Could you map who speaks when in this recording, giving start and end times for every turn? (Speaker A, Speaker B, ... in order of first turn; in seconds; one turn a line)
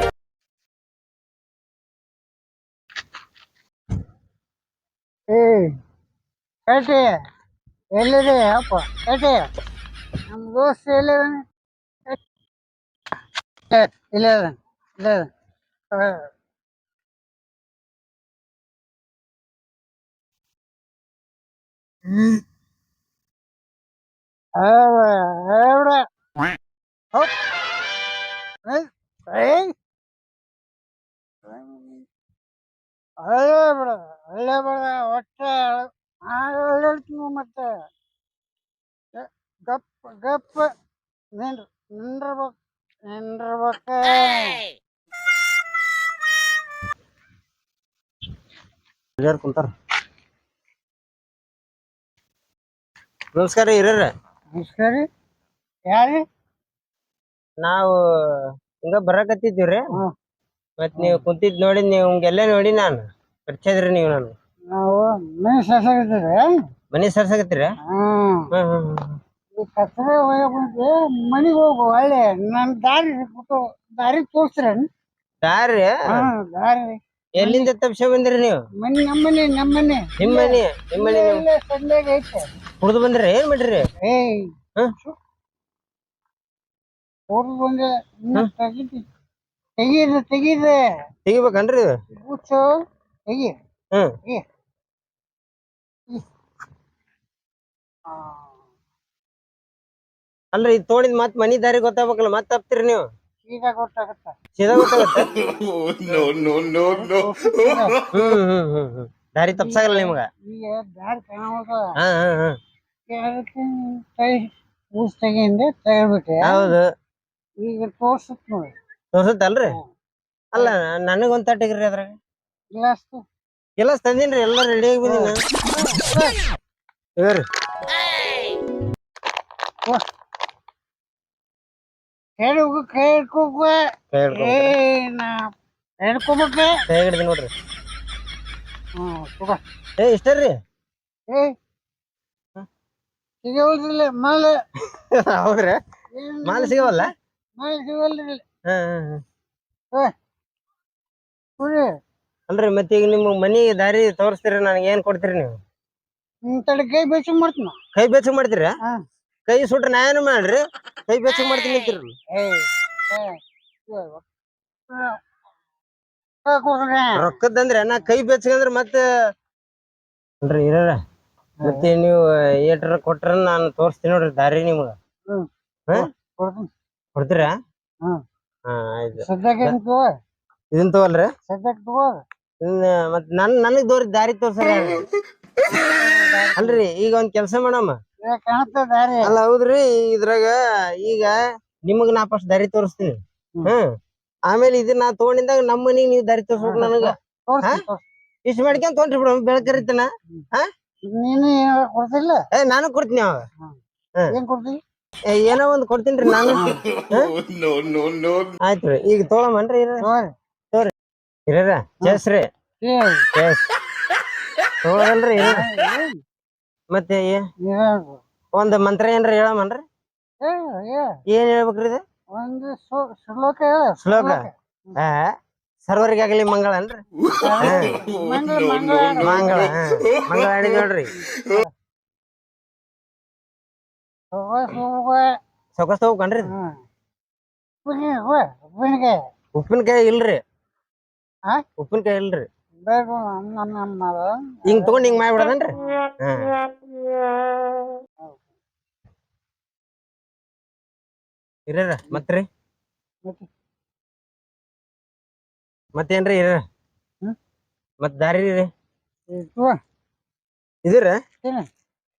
Speaker A: 5.3-5.8
Speaker A: 6.7-7.1
Speaker A: 8.0-9.5
Speaker A: 10.3-11.4
Speaker A: 13.7-15.3
Speaker A: 15.9-16.3
Speaker A: 24.6-26.1
Speaker A: 28.7-29.7
Speaker A: 31.5-32.1
Speaker A: 33.2-37.7
Speaker A: 39.1-40.7
Speaker A: 41.4-42.6
Speaker A: 43.1-44.6
Speaker B: 49.2-49.7
Speaker B: 53.4-54.1
Speaker A: 54.5-55.0
Speaker A: 55.9-56.2
Speaker B: 57.6-59.9
Speaker B: 60.8-64.3
Speaker A: 61.0-61.2
Speaker A: 64.7-66.5
Speaker B: 66.9-67.7
Speaker A: 67.9-68.5
Speaker B: 68.5-69.2
Speaker A: 69.6-74.9
Speaker B: 75.4-76.3
Speaker A: 76.1-77.7
Speaker B: 77.4-78.6
Speaker A: 78.8-82.5
Speaker B: 80.2-81.5
Speaker B: 82.8-83.9
Speaker A: 84.0-85.2
Speaker A: 87.3-89.0
Speaker A: 89.8-90.8
Speaker B: 91.3-91.9
Speaker A: 92.2-92.7
Speaker A: 93.3-93.5
Speaker A: 98.1-98.5
Speaker B: 100.5-103.1
Speaker A: 103.5-104.4
Speaker B: 104.6-105.3
Speaker C: 105.4-107.3
Speaker A: 106.1-108.0
Speaker B: 108.1-110.3
Speaker A: 109.5-111.9
Speaker B: 112.0-112.6
Speaker A: 113.1-116.7
Speaker B: 116.4-116.9
Speaker A: 117.6-118.7
Speaker B: 119.1-119.8
Speaker B: 120.5-122.2
Speaker A: 122.7-123.2
Speaker B: 123.8-125.4
Speaker A: 125.0-126.3
Speaker B: 127.2-127.5
Speaker A: 132.4-133.8
Speaker B: 134.1-134.8
Speaker A: 134.3-135.5
Speaker A: 136.0-136.8
Speaker B: 136.9-137.5
Speaker A: 139.0-139.6
Speaker B: 140.0-140.6
Speaker A: 143.4-144.6
Speaker B: 144.9-145.8
Speaker A: 146.1-147.1
Speaker B: 146.4-147.1
Speaker A: 147.6-148.4
Speaker B: 148.7-149.2
Speaker A: 151.6-151.9
Speaker B: 152.5-155.6
Speaker A: 156.5-157.8
Speaker B: 157.9-158.8
Speaker B: 159.5-162.1
Speaker A: 162.3-164.2
Speaker A: 164.9-165.2
Speaker A: 166.5-167.3
Speaker B: 167.2-169.1
Speaker B: 170.4-171.0
Speaker A: 171.6-171.9
Speaker B: 171.6-174.9
Speaker A: 175.3-176.7
Speaker B: 177.2-177.6
Speaker B: 178.7-179.8
Speaker A: 179.2-180.1
Speaker B: 180.7-181.3
Speaker A: 181.5-182.2
Speaker B: 182.6-185.1
Speaker A: 185.7-186.8
Speaker B: 186.6-188.0
Speaker A: 188.2-189.4
Speaker B: 189.2-193.9
Speaker B: 194.5-197.8
Speaker A: 196.6-198.1
Speaker B: 198.5-200.7
Speaker A: 201.1-202.4
Speaker B: 202.5-203.4
Speaker A: 204.3-204.8
Speaker B: 205.3-207.3
Speaker A: 206.5-206.8
Speaker C: 206.9-208.6
Speaker B: 208.6-210.0
Speaker A: 210.0-210.3
Speaker B: 211.5-212.5
Speaker A: 212.8-213.3
Speaker B: 213.3-213.7
Speaker B: 214.8-215.6
Speaker A: 215.4-216.2
Speaker B: 216.9-217.4
Speaker A: 217.6-218.2
Speaker B: 218.6-219.8
Speaker A: 220.4-221.2
Speaker B: 221.3-222.0
Speaker A: 222.3-225.0
Speaker B: 224.0-224.4
Speaker B: 225.0-225.3
Speaker B: 225.8-227.0
Speaker A: 227.3-229.8
Speaker B: 227.6-228.0
Speaker C: 228.0-230.3
Speaker B: 229.2-231.1
Speaker A: 231.2-231.7
Speaker A: 234.3-235.3
Speaker B: 235.8-236.5
Speaker A: 236.4-236.7
Speaker A: 237.8-239.2
Speaker B: 239.6-240.4
Speaker B: 241.8-242.5
Speaker A: 242.8-246.0
Speaker B: 244.7-246.6
Speaker B: 251.7-252.5
Speaker B: 255.9-256.6
Speaker B: 258.0-258.7
Speaker A: 259.3-259.8
Speaker B: 260.9-261.2